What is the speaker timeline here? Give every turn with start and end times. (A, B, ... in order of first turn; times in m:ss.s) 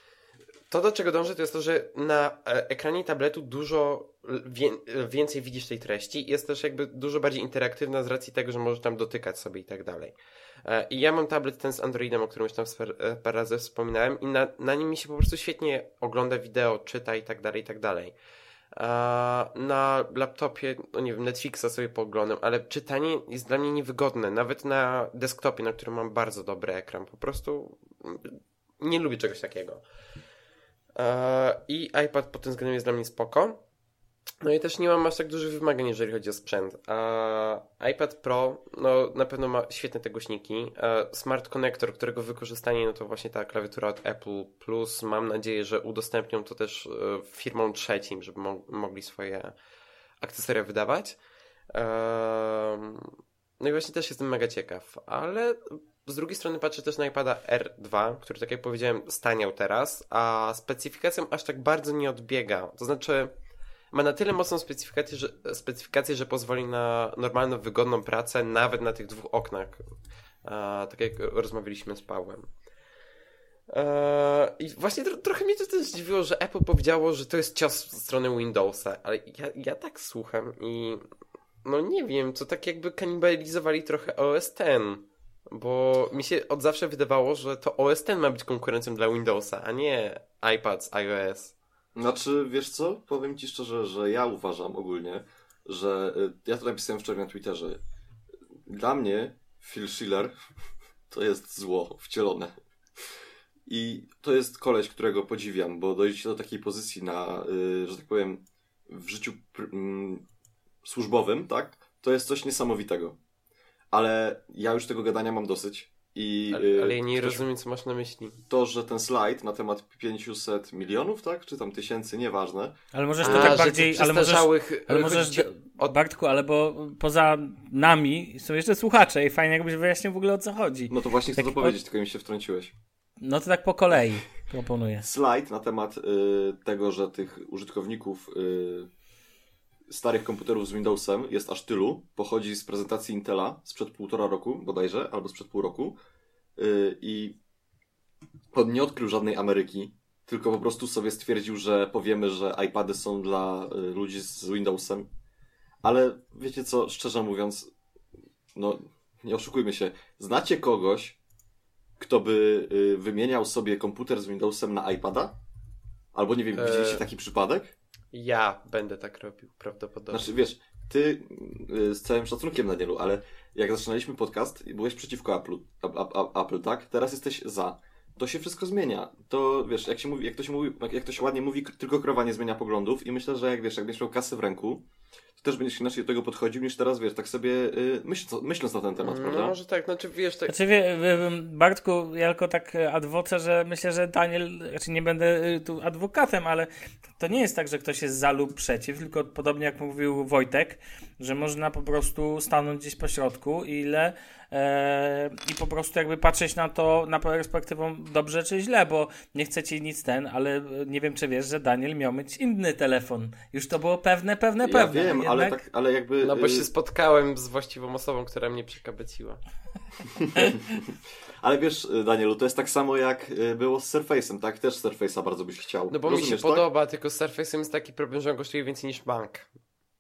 0:00.7-0:18.2 A
0:18.7-0:29.8 A
0:31.0-0:33.6 A
0:34.4-0:49.6 A
0:50.2-0:51.2 A
0:51.7-1:03.4 A
1:03.9-1:09.9 A
1:10.4-1:12.5 A
1:13.7-1:21.0 A
1:21.6-1:31.5 A
1:32.0-1:37.8 B
1:38.7-1:40.4 B
1:41.1-1:42.5 B
1:43.7-1:50.2 B
1:50.8-1:53.2 B
1:53.9-1:57.4 B
1:56.5-1:58.4 A
1:58.5-2:03.6 B
2:02.9-2:11.8 C
2:03.2-2:06.0 A
2:10.9-2:12.7 B
2:13.2-2:15.1 C
2:15.0-2:18.9 B
2:19.9-2:26.0 B
2:26.6-2:27.4 B
2:28.5-2:35.1 B
2:35.8-2:37.7 B
2:38.6-2:41.2 B
2:42.0-2:45.4 B
2:46.1-2:47.7 B
2:46.5-2:47.0 A
2:48.1-2:50.3 A
2:50.1-3:04.8 B
3:05.4-3:09.6 B
3:09.0-3:10.6 A
3:10.5-3:35.6 C
3:34.6-3:36.7 B
3:36.2-3:39.4 A
3:41.4-3:46.6 B
3:45.9-3:49.5 A